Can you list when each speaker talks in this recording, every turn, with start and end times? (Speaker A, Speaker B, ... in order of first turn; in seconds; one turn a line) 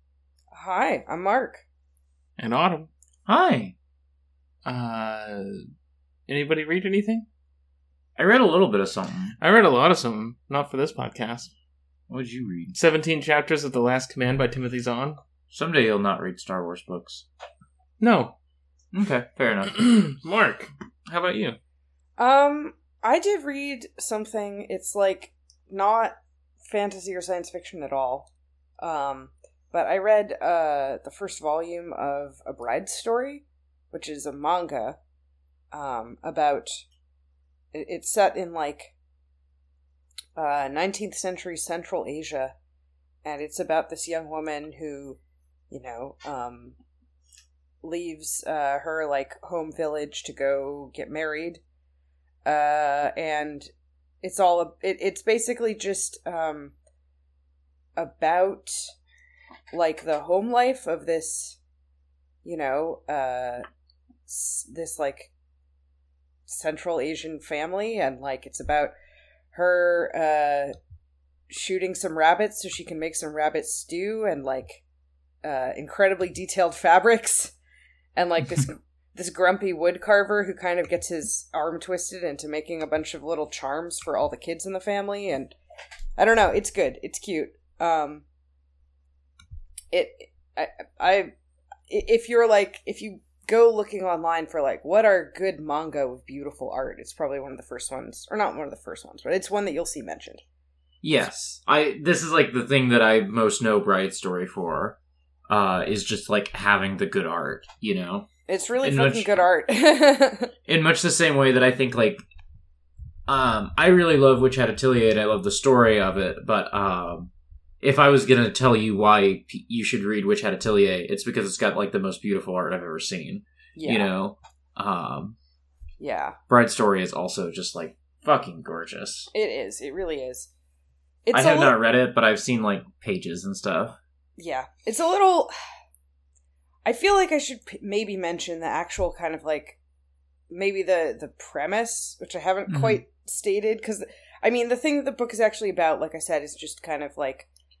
Speaker A: 0.5-1.6
Speaker B: 2.4-2.9
Speaker C: 3.3-3.7
Speaker B: 4.6-5.6
Speaker B: 6.3-7.2
Speaker C: 8.2-9.3
Speaker B: 9.4-11.5
Speaker C: 12.1-12.8
Speaker B: 12.7-15.2
Speaker C: 15.5-17.2
Speaker B: 18.0-18.3
Speaker C: 18.9-19.8
Speaker B: 19.7-21.6
Speaker A: 22.2-26.2
Speaker A: 26.7-28.3
Speaker A: 28.8-35.0
Speaker A: 35.7-36.8
Speaker A: 37.7-38.9
Speaker A: 40.4-42.5
Speaker A: 43.2-45.2
Speaker A: 45.7-46.7
Speaker A: 47.8-51.6
Speaker A: 52.4-53.7
Speaker A: 54.2-56.7
Speaker A: 58.0-58.9
Speaker A: 59.7-61.6
Speaker A: 62.4-63.6
Speaker A: 64.3-65.3
Speaker A: 66.5-68.9
Speaker A: 69.5-70.7
Speaker A: 71.5-74.8
Speaker A: 75.4-77.5
Speaker A: 78.2-85.5
Speaker A: 86.2-88.2
Speaker A: 89.9-91.3
Speaker A: 91.9-100.4
Speaker C: 101.0-105.0
Speaker C: 105.5-108.3
Speaker A: 108.5-110.5
Speaker C: 108.8-109.3
Speaker C: 110.7-112.2
Speaker C: 113.3-117.3
Speaker C: 117.8-125.3
Speaker A: 123.8-124.1
Speaker A: 126.0-126.4
Speaker C: 126.5-129.3
Speaker A: 129.3-130.5
Speaker A: 131.2-131.7
Speaker C: 131.3-133.9
Speaker A: 134.4-135.5
Speaker A: 136.8-139.8
Speaker A: 140.5-147.5
Speaker C: 142.7-143.0